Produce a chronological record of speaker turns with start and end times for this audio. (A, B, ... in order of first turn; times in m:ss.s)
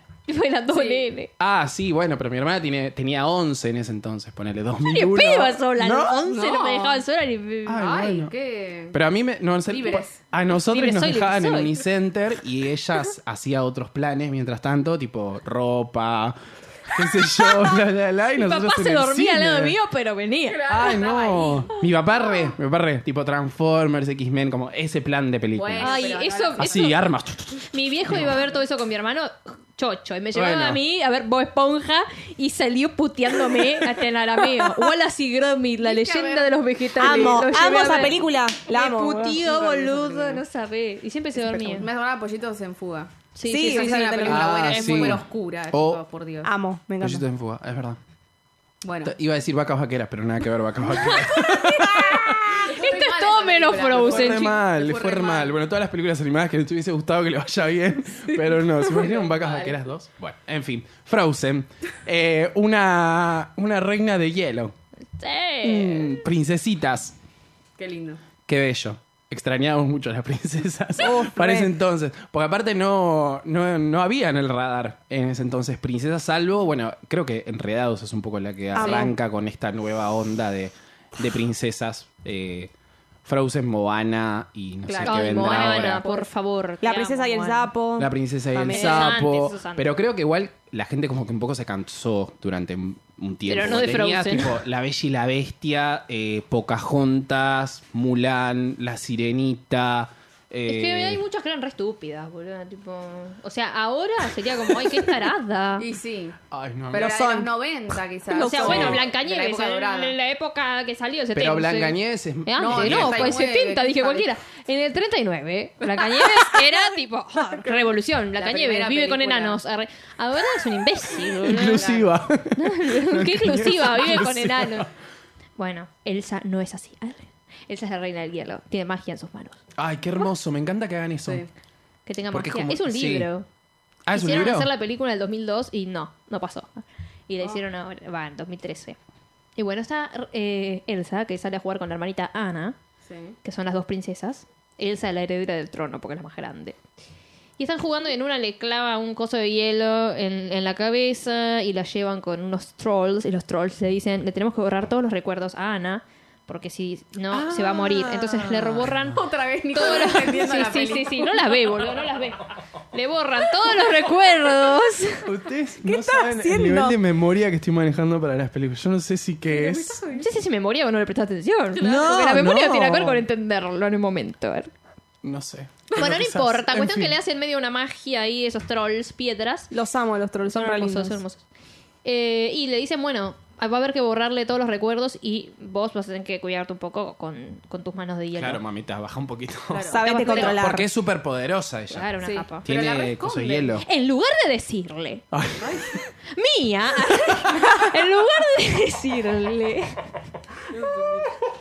0:00.3-0:01.3 A
0:00.7-0:01.0 B
0:01.4-0:06.2 C
0:04.8-0:07.8 A
0:06.3-0:07.0 B
0:07.7-0:08.3 C
0:07.8-0:09.0 B
0:08.9-0:19.8 C
0:09.7-0:10.2 B
0:10.5-0:11.8 A
0:17.4-0:17.8 A
0:18.3-0:20.6 A
0:20.4-0:21.8 B
0:20.7-0:26.0 C
0:25.5-0:27.0 B
0:25.8-0:27.0 A
0:26.6-0:28.4 C
0:27.7-0:41.9 A
0:30.4-0:30.8 C
0:34.6-0:34.9 D
0:35.8-0:37.6 B
0:37.0-0:39.6 D
0:39.0-0:40.4 B
0:41.4-0:46.5 B
0:43.4-0:45.2 A
0:43.4-0:44.8 D
0:44.3-0:46.0 C
0:46.4-0:47.2 D
0:47.0-0:48.0 C
0:48.8-0:49.2 B
0:49.0-0:52.7 C
0:51.0-0:54.6 A
0:52.6-0:55.5 B
0:53.9-1:04.7 C
0:58.4-0:59.8 B
1:05.2-1:06.2 A
1:05.6-1:07.2 C
1:07.8-1:08.2 B
1:08.5-1:22.7 C
1:11.0-1:11.7 D
1:18.7-1:19.1 D
1:18.8-1:19.1 B
1:23.2-1:26.0 C
1:24.9-1:26.3 B
1:25.0-1:27.7 A
1:26.8-1:29.2 D
1:28.0-1:41.2 C
1:28.7-1:29.9 A
1:33.5-1:34.6 A
1:40.7-1:45.9 A
1:45.8-1:46.4 B
1:46.5-1:47.2 C
1:46.9-1:50.2 B
1:46.9-1:47.5 D
1:48.3-2:02.0 A
1:48.3-1:48.6 D
1:48.6-1:49.0 C
1:51.3-1:53.3 C
1:52.6-1:54.3 B
1:56.0-1:56.6 B
1:58.4-1:59.6 B
2:01.4-2:04.9 C
2:01.6-2:02.1 B
2:02.5-2:04.9 A
2:05.6-2:09.6 A
2:09.8-2:11.5 C
2:12.1-2:13.5 A
2:12.3-2:13.3 C
2:14.1-2:14.7 C
2:14.1-2:19.0 A
2:19.6-2:22.8 A
2:23.1-2:23.4 B
2:23.4-2:26.8 A
2:27.6-2:45.3 A
2:37.6-2:38.3 D
2:38.5-2:39.0 C
2:39.0-2:41.6 B
2:45.2-2:50.0 C
2:45.8-2:47.0 D
2:49.5-2:50.3 B
2:50.1-2:54.7 A
2:51.8-2:53.2 C
2:55.2-2:57.2 C
2:56.0-2:59.7 A
2:59.7-3:01.2 D
3:00.4-3:01.4 A
3:02.0-3:08.6 A
3:08.4-3:12.1 C
3:09.7-3:10.6 B
3:09.9-3:10.9 D
3:10.1-3:10.6 A
3:11.9-3:12.7 A
3:12.2-3:13.8 B
3:12.6-3:13.8 C
3:13.8-3:15.3 A
3:15.3-3:15.7 C
3:15.6-3:16.0 B
3:16.3-3:20.0 A
3:20.7-3:21.2 B